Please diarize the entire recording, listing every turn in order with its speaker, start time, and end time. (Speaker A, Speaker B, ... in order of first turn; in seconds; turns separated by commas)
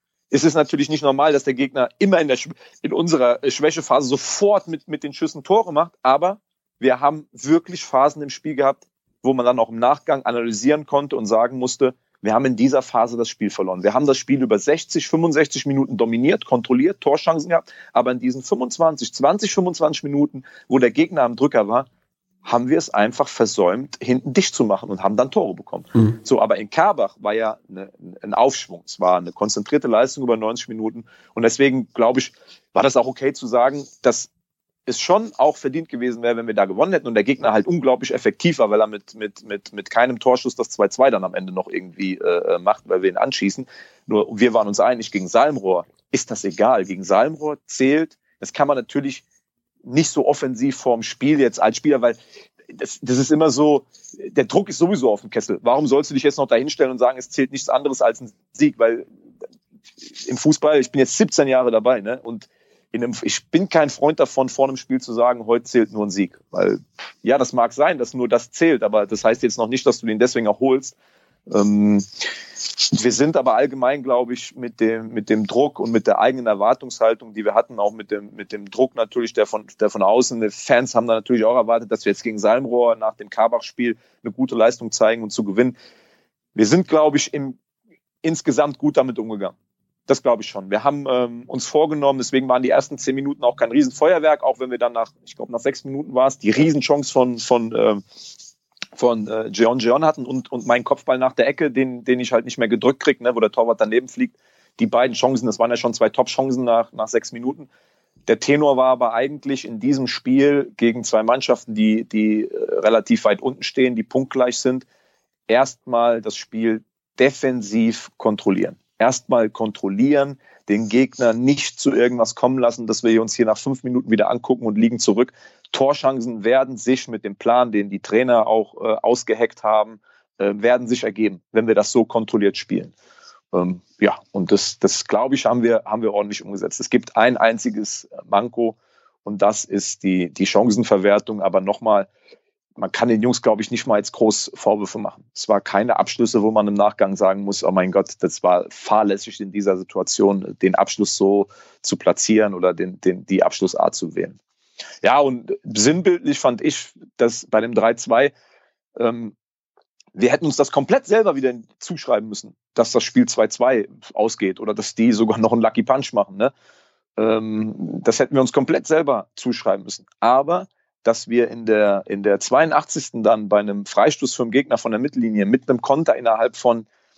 Speaker A: 0.3-21.9, Speaker A: 22.4-34.3, Speaker A: 34.9-49.2, Speaker A: 49.9-52.2, Speaker A: 52.7-59.0, Speaker A: 60.0-71.0, Speaker A: 71.5-85.8, Speaker A: 86.5-87.6, Speaker A: 88.2-89.5, Speaker A: 90.1-98.0, Speaker A: 99.0-107.7, Speaker A: 108.3-114.9, Speaker A: 115.5-132.9, Speaker A: 133.5-142.1, Speaker A: 142.8-154.4, Speaker A: 155.0-158.3, Speaker A: 159.0-159.3, Speaker A: 160.2-166.5, Speaker A: 167.2-176.9